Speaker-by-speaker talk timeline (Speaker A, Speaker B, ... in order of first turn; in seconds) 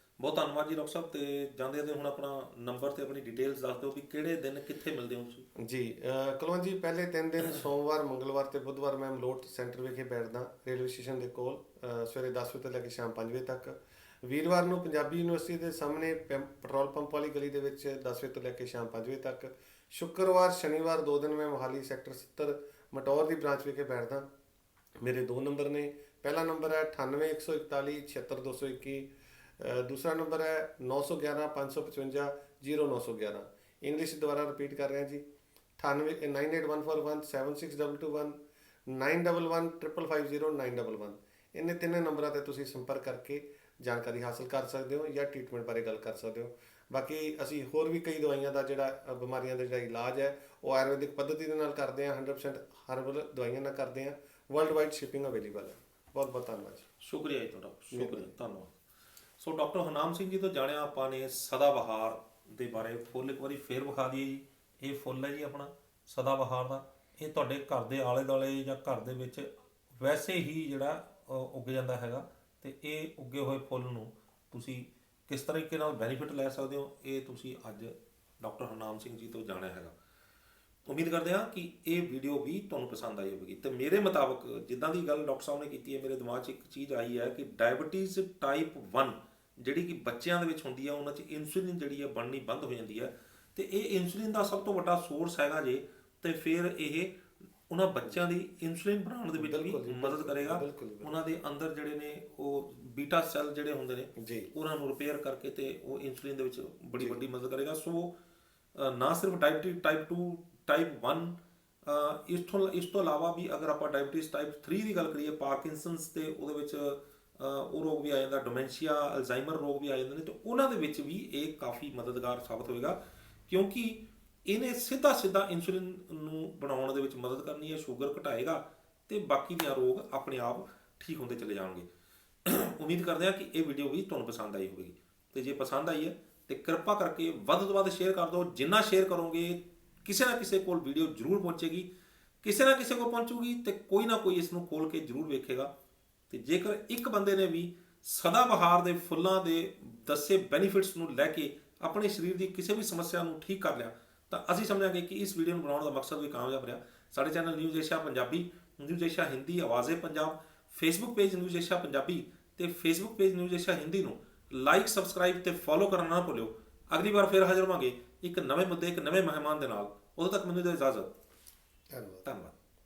Speaker A: 0.2-5.5, 57.0-58.7, 59.4-80.0, 80.9-108.1, 108.8-131.9, 132.4-141.9, 142.4-145.7, 146.3-171.1, 172.2-172.5
Speaker B: 5.6-24.3, 25.0-35.2, 35.8-56.9, 57.9-58.4, 99.4-101.2, 104.2-104.5, 171.9-172.3